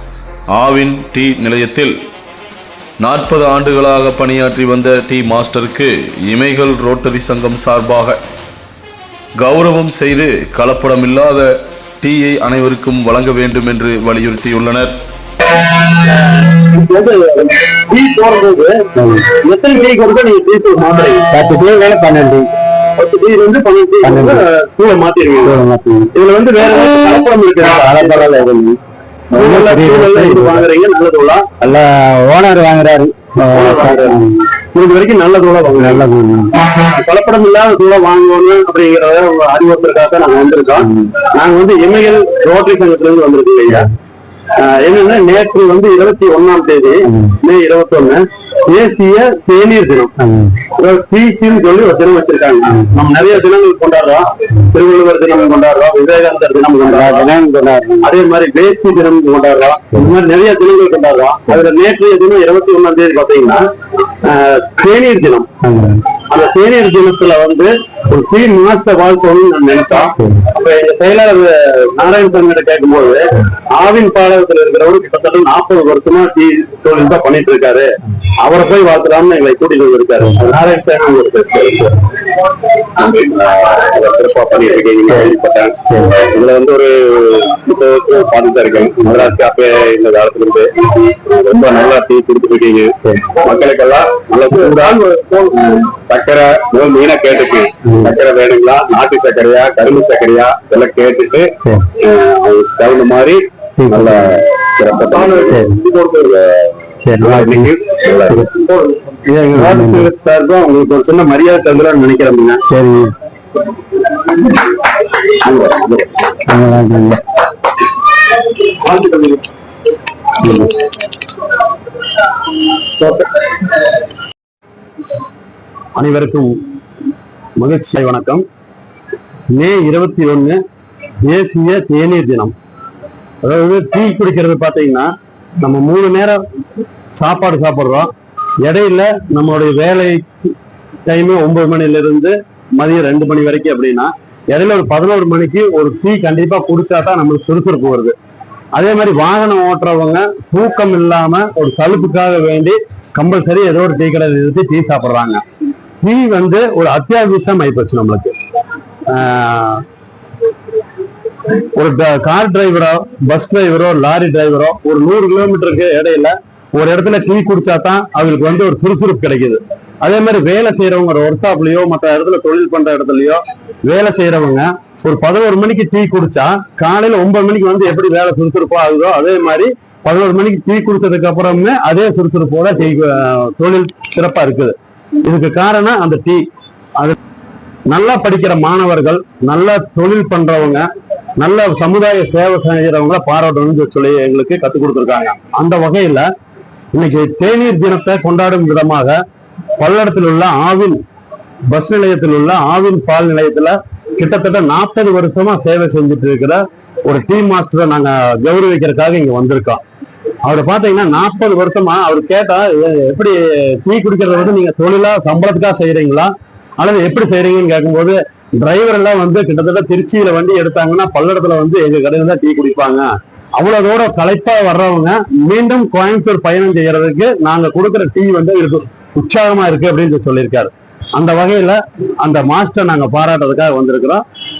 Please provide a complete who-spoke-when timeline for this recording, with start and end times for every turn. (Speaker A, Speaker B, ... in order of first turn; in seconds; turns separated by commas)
Speaker A: 0.5-1.9, Speaker A: 3.0-8.2, Speaker A: 9.4-14.9, Speaker B: 15.9-21.3, Speaker C: 18.9-19.2, Speaker C: 21.3-22.5, Speaker B: 23.0-25.6, Speaker C: 24.0-24.4, Speaker C: 25.4-26.1, Speaker B: 26.1-28.4, Speaker C: 27.8-28.8, Speaker C: 29.3-30.6, Speaker B: 29.3-31.6, Speaker C: 31.6-34.4, Speaker B: 33.5-36.0, Speaker C: 35.7-36.6, Speaker B: 36.7-43.9, Speaker B: 44.5-50.1, Speaker C: 50.2-50.6, Speaker B: 50.7-57.3, Speaker C: 56.8-58.1, Speaker B: 58.0-63.6, Speaker B: 64.2-65.5, Speaker C: 65.6-66.0, Speaker B: 66.3-82.0, Speaker B: 83.0-112.6, Speaker C: 103.8-104.3, Speaker C: 105.4-105.8, Speaker C: 107.0-107.7, Speaker C: 109.5-110.0, Speaker C: 112.7-113.1, Speaker B: 115.3-116.3, Speaker C: 116.5-117.2, Speaker B: 118.8-119.4, Speaker C: 120.4-120.7, Speaker B: 126.0-126.6, Speaker B: 127.6-128.4, Speaker B: 129.5-130.6, Speaker B: 131.2-132.5, Speaker B: 133.4-136.4, Speaker B: 137.1-138.1, Speaker B: 138.6-140.3, Speaker B: 141.1-148.2, Speaker B: 148.7-155.4, Speaker B: 156.0-158.3, Speaker B: 159.1-159.8, Speaker B: 161.6-187.2, Speaker B: 187.9-190.9, Speaker B: 191.4-196.3, Speaker B: 196.9-199.2, Speaker B: 199.8-201.0, Speaker B: 201.7-209.8, Speaker B: 210.4-234.2